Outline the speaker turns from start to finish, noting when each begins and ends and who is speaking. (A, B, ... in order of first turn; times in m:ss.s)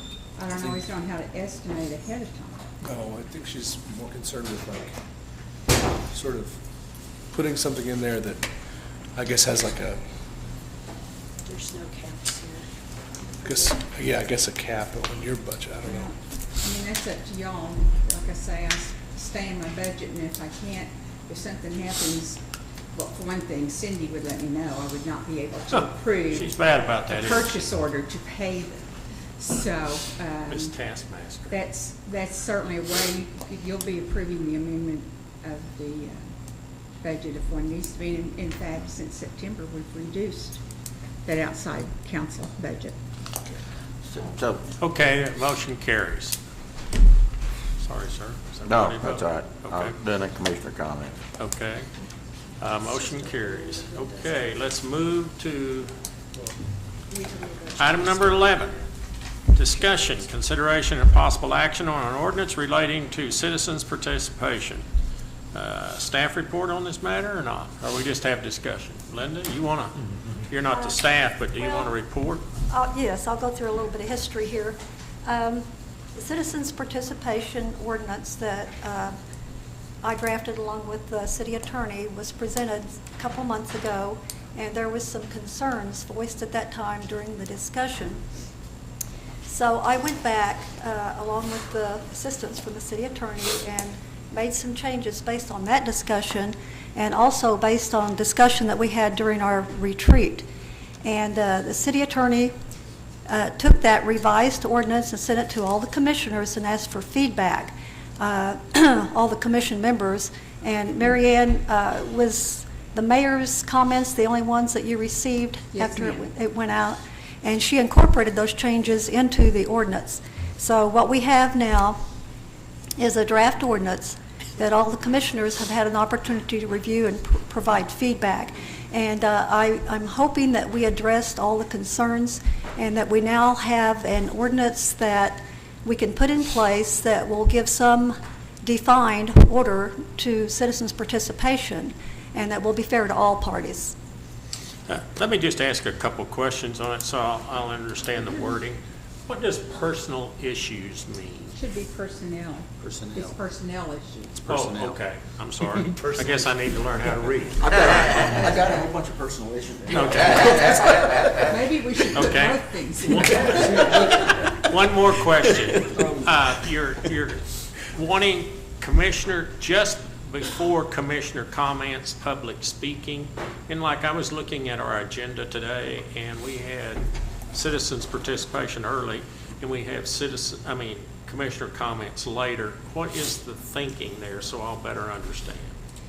0:00.4-0:02.6 A
0:02.8-0:05.0 B
0:05.9-0:06.6 B
0:07.3-0:08.5 B
0:09.2-0:10.0 B
0:11.5-0:12.6 C
0:13.4-0:16.1 B
0:13.4-0:13.7 C
0:15.8-0:22.4 A
0:22.9-0:30.7 A
0:25.7-0:27.6 D
0:30.5-0:31.6 D
0:31.5-0:36.2 A
0:37.0-0:40.6 A
0:41.2-0:43.0 A
0:44.1-0:44.6 E
0:44.8-0:46.4 D
0:47.8-0:50.0 D
0:48.6-0:51.2 E
0:51.4-0:51.9 D
0:52.6-0:55.9 D
0:57.1-0:58.6 C
0:57.8-0:58.8 D
0:59.5-1:04.8 D
1:05.5-1:12.4 D
1:11.6-1:12.0 F
1:12.7-1:19.2 F
1:20.0-1:28.2 F
1:29.4-1:40.5 F
1:41.0-1:42.5 F
1:43.3-2:02.0 F
1:55.7-1:56.2 A
2:03.0-2:24.0 F
2:24.9-2:31.6 D
2:31.5-2:34.5 A
2:32.8-2:33.4 G
2:34.5-2:35.0 G
2:34.5-2:38.6 D
2:35.9-2:36.5 G
2:37.6-2:40.9 G
2:37.9-2:38.4 E
2:39.9-2:41.1 D
2:39.9-2:41.5 E
2:41.3-2:44.1 A
2:42.1-3:05.7 D
2:43.5-2:44.2 G
2:45.9-2:46.2 G